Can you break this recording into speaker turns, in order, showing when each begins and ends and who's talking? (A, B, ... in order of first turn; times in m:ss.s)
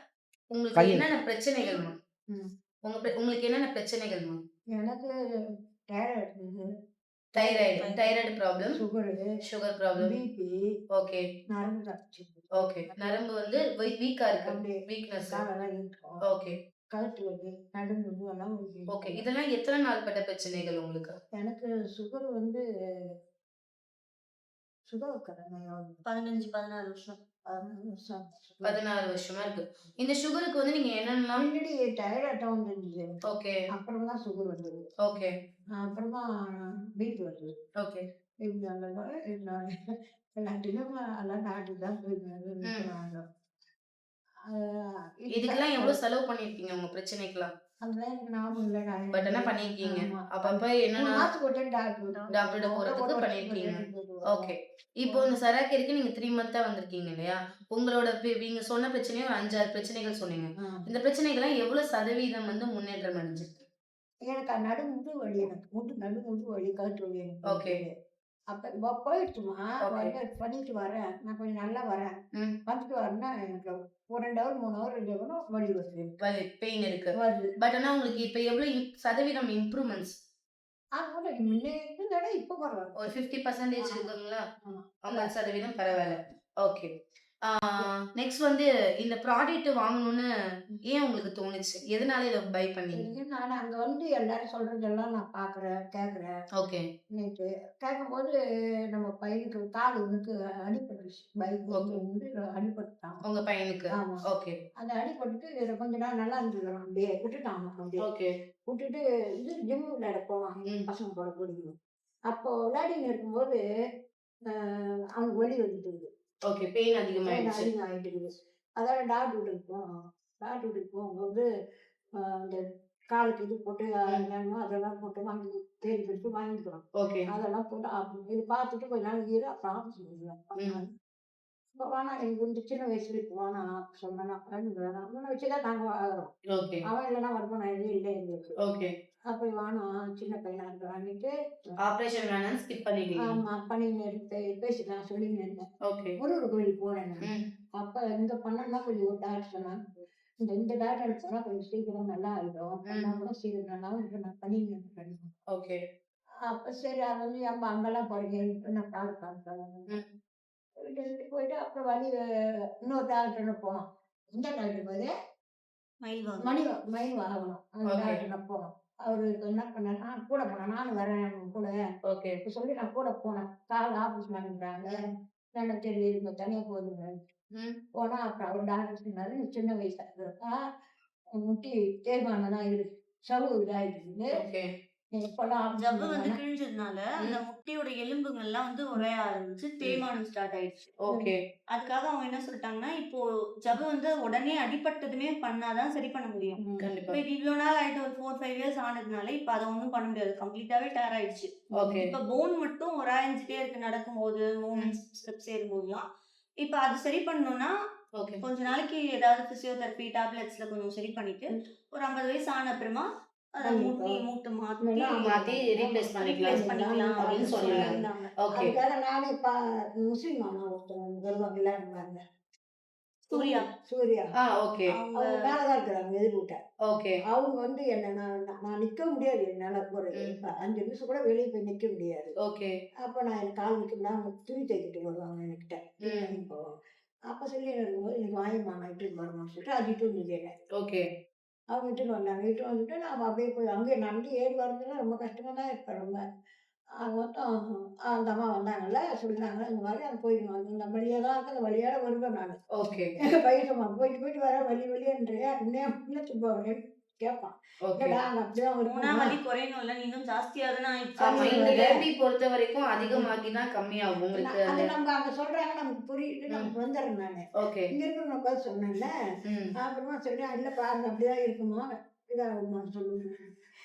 0:00.5-0:02.0 A
0:02.9-0:04.4 A
0:04.8-0:05.1 B
0:05.9-0:06.7 B
0:07.4-0:08.0 B
0:07.4-0:08.8 A
0:08.8-0:09.3 B
0:09.4-0:10.2 A
0:10.0-0:10.6 B
0:11.0-0:11.2 A
0:11.5-0:13.2 B
0:12.6-0:15.4 A
0:14.4-0:16.2 B
0:16.3-0:16.6 A
0:16.9-0:19.2 B
0:18.9-0:21.2 A
0:21.4-0:22.6 B
0:24.9-0:26.0 B
0:26.1-0:27.2 C
0:27.5-0:28.8 B
0:28.6-0:31.4 A
0:31.4-0:33.1 B
0:33.3-0:33.6 A
0:33.7-0:34.8 B
0:35.0-0:35.3 A
0:35.8-0:37.5 B
0:38.4-0:39.7 B
0:40.4-0:43.2 B
0:45.3-0:46.0 B
0:45.3-0:47.5 A
0:47.8-0:54.5 B
0:49.1-0:51.2 A
0:52.3-1:03.6 A
0:55.1-0:55.3 B
1:04.3-1:07.9 B
1:07.5-1:07.8 A
1:08.5-1:12.1 B
1:09.8-1:10.1 A
1:12.7-1:16.2 B
1:16.2-1:20.2 A
1:17.2-1:17.5 B
1:21.0-1:23.0 B
1:23.0-1:24.4 A
1:23.8-1:24.1 B
1:24.7-1:25.3 B
1:25.1-1:26.9 A
1:27.5-1:30.3 A
1:30.9-1:33.1 A
1:33.0-1:36.3 B
1:36.6-1:36.8 A
1:37.2-1:38.3 B
1:38.9-1:43.2 B
1:41.7-1:42.0 A
1:43.2-1:44.6 A
1:44.0-1:44.2 B
1:44.8-1:48.0 B
1:48.0-1:48.3 A
1:48.7-1:51.8 B
1:52.3-1:53.6 B
1:54.6-1:56.1 B
1:56.5-1:57.7 A
1:57.2-1:58.3 B
1:58.8-1:59.8 B
2:00.4-2:01.5 B
2:03.1-2:10.9 B
2:07.0-2:07.3 A
2:10.6-2:10.8 A
2:11.8-2:16.3 B
2:16.5-2:16.8 A
2:16.9-2:18.5 B
2:18.6-2:18.9 A
2:19.3-2:21.3 B
2:21.8-2:23.4 A
2:23.2-2:25.6 B
2:25.9-2:26.2 A
2:26.2-2:27.3 B
2:27.8-2:29.8 B
2:30.4-2:35.3 B
2:32.9-2:33.2 A
2:35.5-2:35.8 A
2:36.5-2:39.9 B
2:40.9-2:42.1 B
2:42.9-2:43.8 B
2:44.4-2:45.1 B
2:46.0-2:46.5 C
2:46.4-2:51.7 B
2:47.9-2:48.2 A
2:52.1-2:52.4 A
2:52.4-2:55.0 B
2:55.6-2:57.1 B
2:58.0-3:00.6 B
3:01.4-3:04.3 B
3:04.3-3:04.7 A
3:05.2-3:06.4 B
3:05.8-3:10.9 C
3:11.1-3:11.4 A
3:11.7-3:16.6 C
3:16.6-3:16.9 B
3:16.8-3:17.2 A
3:17.1-3:26.0 C
3:21.8-3:22.1 A
3:26.6-3:27.7 C
3:28.2-3:28.4 A
3:28.4-3:35.4 C
3:33.6-3:34.2 B
3:34.8-3:42.2 B
3:35.2-3:38.8 A
3:36.2-3:38.2 C
3:43.3-3:43.7 C
3:43.4-3:44.3 B
3:44.4-3:45.0 A
3:44.9-3:45.4 C
3:45.2-3:46.6 B
3:46.9-3:47.2 A
3:47.3-3:52.3 B
3:52.5-3:52.7 A
3:53.0-3:56.6 B
3:56.0-3:56.4 A
3:57.3-4:00.5 B
4:00.8-4:01.0 A
4:01.7-4:06.2 B
4:07.0-4:12.6 B
4:12.8-4:13.1 A
4:13.4-4:19.4 B
4:17.9-4:18.2 A
4:18.9-4:21.8 C
4:21.2-4:22.0 B
4:21.3-4:24.9 A
4:24.3-4:29.1 B
4:27.6-4:27.9 A
4:29.5-4:29.7 A
4:29.8-4:33.3 B